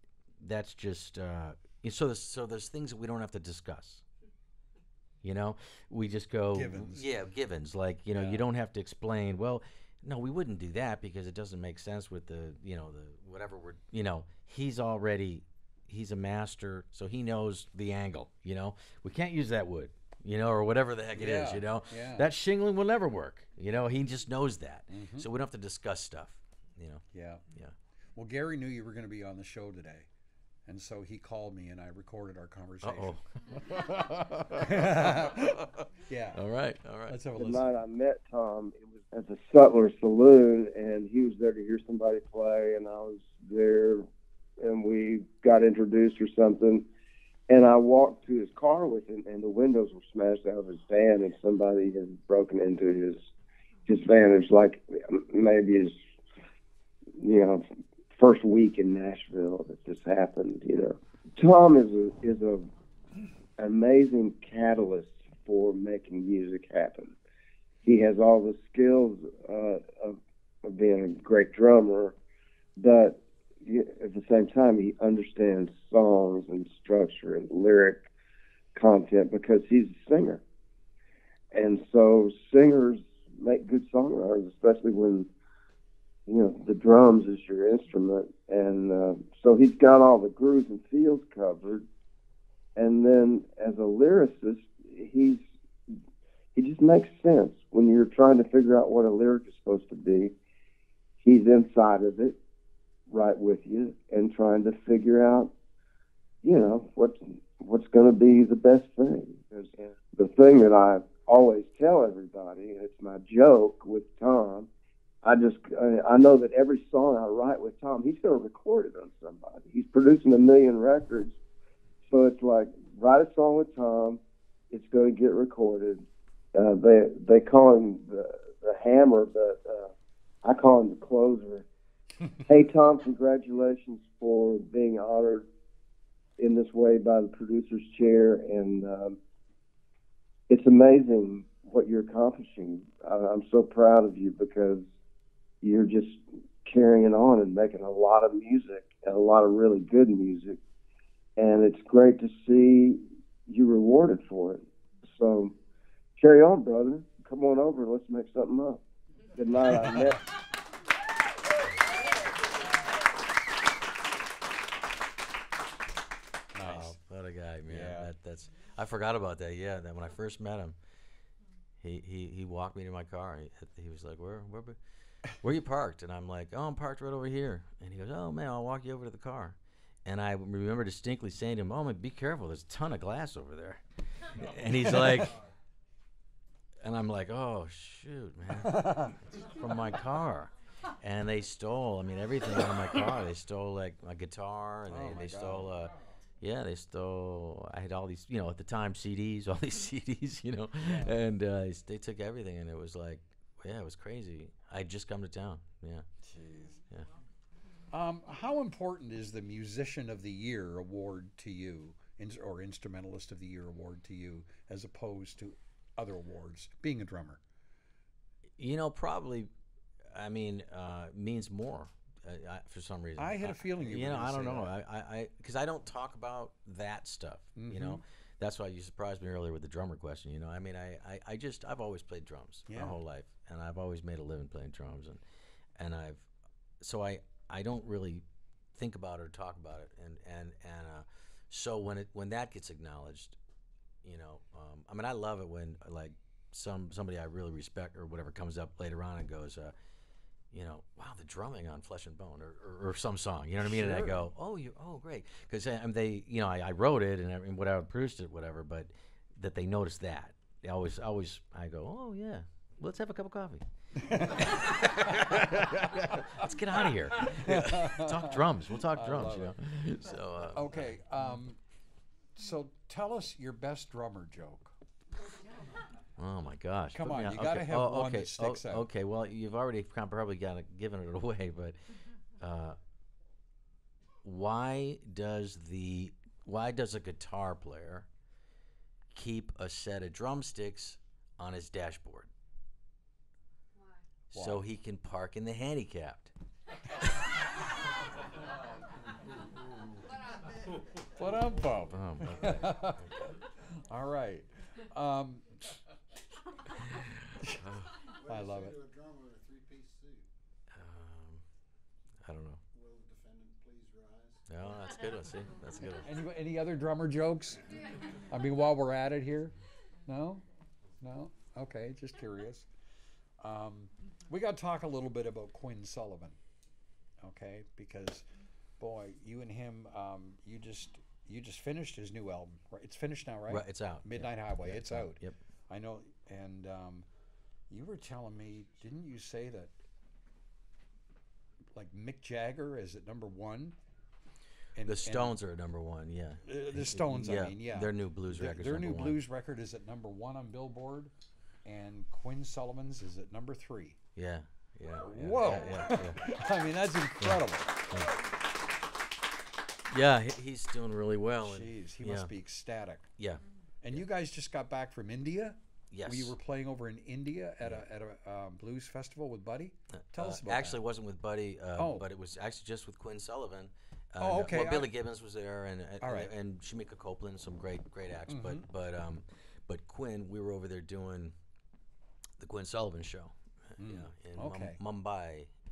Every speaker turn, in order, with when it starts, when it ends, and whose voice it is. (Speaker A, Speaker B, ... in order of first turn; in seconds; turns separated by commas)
Speaker A: 0.4-4.0, Speaker A: 5.2-27.8, Speaker B: 6.5-7.1, Speaker B: 8.1-8.4, Speaker B: 21.2-22.3, Speaker B: 24.9-25.3, Speaker B: 27.1-27.4, Speaker B: 28.2-30.1, Speaker B: 30.7-33.2, Speaker A: 32.8-37.2, Speaker B: 34.6-36.4, Speaker B: 37.1-37.7, Speaker C: 37.4-44.1, Speaker C: 44.6-46.9, Speaker C: 47.5-53.3, Speaker C: 53.9-56.0, Speaker C: 57.2-57.6, Speaker C: 58.2-62.7, Speaker C: 63.6-67.2, Speaker C: 67.8-72.2, Speaker C: 72.8-78.1, Speaker C: 78.8-80.4, Speaker C: 81.5-85.3, Speaker C: 86.3-91.9, Speaker C: 92.8-95.5, Speaker C: 96.6-100.3, Speaker C: 101.2-102.4, Speaker C: 103.1-105.5, Speaker C: 106.4-114.7, Speaker C: 115.2-121.4, Speaker C: 122.1-129.9, Speaker C: 130.4-131.7, Speaker C: 132.4-135.5, Speaker C: 136.4-139.2, Speaker C: 140.5-144.9, Speaker C: 145.6-150.6, Speaker C: 151.4-155.5, Speaker C: 156.2-158.8, Speaker C: 159.3-160.2, Speaker B: 166.5-166.9, Speaker A: 166.6-170.8, Speaker B: 167.7-168.1, Speaker A: 171.8-174.8, Speaker A: 175.4-185.4, Speaker B: 184.9-185.2, Speaker A: 186.8-206.1, Speaker B: 188.6-189.2, Speaker B: 194.9-195.9, Speaker B: 200.8-201.2, Speaker B: 206.2-206.8, Speaker B: 207.9-217.4, Speaker A: 218.6-219.5, Speaker A: 220.1-235.2, Speaker B: 223.2-224.7, Speaker B: 227.6-228.0, Speaker B: 232.7-233.0, Speaker A: 235.8-236.3, Speaker A: 236.8-243.4, Speaker A: 244.0-249.8, Speaker A: 250.5-270.9, Speaker B: 253.6-254.2, Speaker B: 264.0-266.5, Speaker B: 267.1-269.6, Speaker B: 270.5-271.6, Speaker B: 272.4-274.7, Speaker A: 276.2-281.8, Speaker B: 276.9-278.9, Speaker A: 282.4-282.8, Speaker A: 284.2-288.1, Speaker A: 289.1-292.3, Speaker A: 294.3-296.3, Speaker B: 294.3-294.6, Speaker B: 301.2-303.3, Speaker A: 301.9-303.0, Speaker B: 303.9-305.7, Speaker A: 306.9-308.0, Speaker D: 308.1-310.3, Speaker B: 308.3-308.8, Speaker A: 310.7-311.4, Speaker A: 312.2-312.6, Speaker D: 312.7-314.7, Speaker A: 314.5-316.1, Speaker B: 316.0-317.6, Speaker B: 318.3-319.6, Speaker B: 320.1-320.4, Speaker B: 321.0-322.7, Speaker B: 323.4-326.4, Speaker B: 327.2-328.3, Speaker B: 328.8-337.1, Speaker A: 333.5-335.4, Speaker B: 337.7-339.7, Speaker B: 341.8-343.8, Speaker B: 344.8-345.4, Speaker A: 344.8-349.2, Speaker B: 346.4-351.1, Speaker B: 351.6-354.0, Speaker A: 354.2-356.2, Speaker B: 355.0-357.9, Speaker A: 357.2-358.2, Speaker A: 359.9-362.3, Speaker B: 361.4-363.1, Speaker A: 363.2-364.0, Speaker B: 363.8-370.8, Speaker A: 365.9-366.4, Speaker A: 369.9-381.4, Speaker B: 371.8-372.1, Speaker B: 374.2-374.9, Speaker B: 376.0-376.3, Speaker B: 378.3-378.7, Speaker A: 382.4-385.5, Speaker B: 383.8-384.8